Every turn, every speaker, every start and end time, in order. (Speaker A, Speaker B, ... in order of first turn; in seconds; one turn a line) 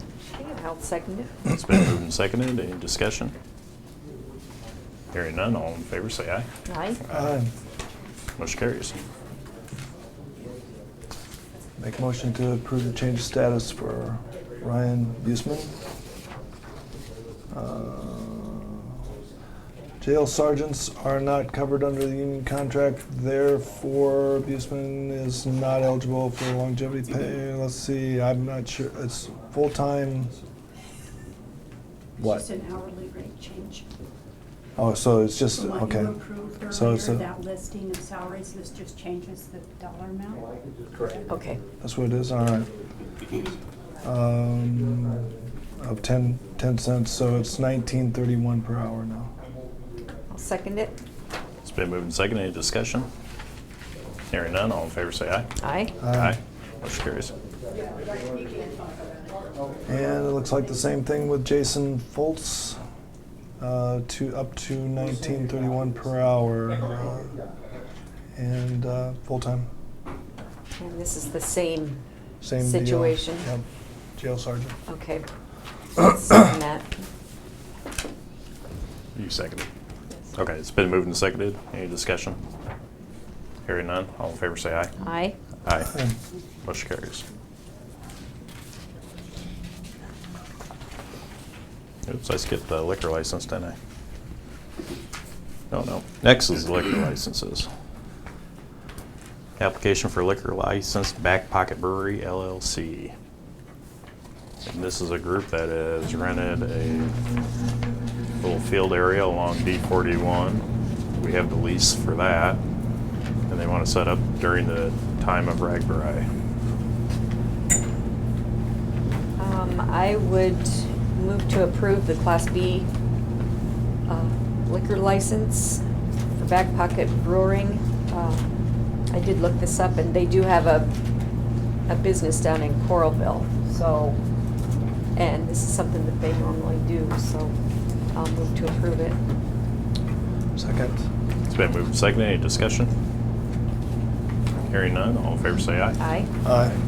Speaker A: 0.3-1.3
Speaker B: 1.5-3.4
Speaker B: 5.1-6.5
Speaker A: 6.7-7.0
Speaker C: 7.1-7.5
Speaker B: 8.4-9.0
Speaker C: 11.8-15.7
Speaker C: 17.5-19.0
Speaker C: 20.0-30.3
Speaker C: 32.2-32.5
Speaker D: 32.2-33.9
Speaker C: 34.8-37.3
Speaker D: 35.5-41.3
Speaker A: 41.3-41.6
Speaker C: 41.8-42.7
Speaker C: 44.0-49.3
Speaker A: 50.3-51.0
Speaker B: 51.6-53.1
Speaker B: 54.3-55.5
Speaker A: 55.6-55.9
Speaker C: 56.0-56.4
Speaker B: 56.1-57.3
Speaker D: 57.9-59.5
Speaker C: 59.9-62.8
Speaker C: 63.6-67.4
Speaker C: 68.4-69.7
Speaker A: 70.8-72.0
Speaker C: 72.4-73.7
Speaker A: 72.6-73.5
Speaker C: 74.2-74.8
Speaker A: 74.9-75.3
Speaker A: 76.0-76.9
Speaker B: 79.2-79.7
Speaker B: 80.3-82.4
Speaker B: 83.7-85.0
Speaker A: 85.0-85.4
Speaker B: 85.7-86.0
Speaker B: 86.6-87.2
Speaker B: 92.1-93.8
Speaker B: 95.7-97.7
Speaker B: 99.6-103.1
Speaker B: 104.7-107.2
Speaker B: 108.4-110.7
Speaker B: 111.2-112.6
Speaker B: 113.5-116.3
Speaker A: 119.4-122.9
Speaker A: 124.1-125.8
Speaker A: 126.4-128.4
Speaker A: 129.1-130.9
Speaker A: 131.9-134.2
Speaker A: 135.2-137.5
Speaker A: 138.1-139.2
Speaker C: 140.6-141.0
Speaker B: 141.5-142.9
Speaker B: 144.7-146.0
Speaker A: 146.0-146.3
Speaker C: 146.4-146.8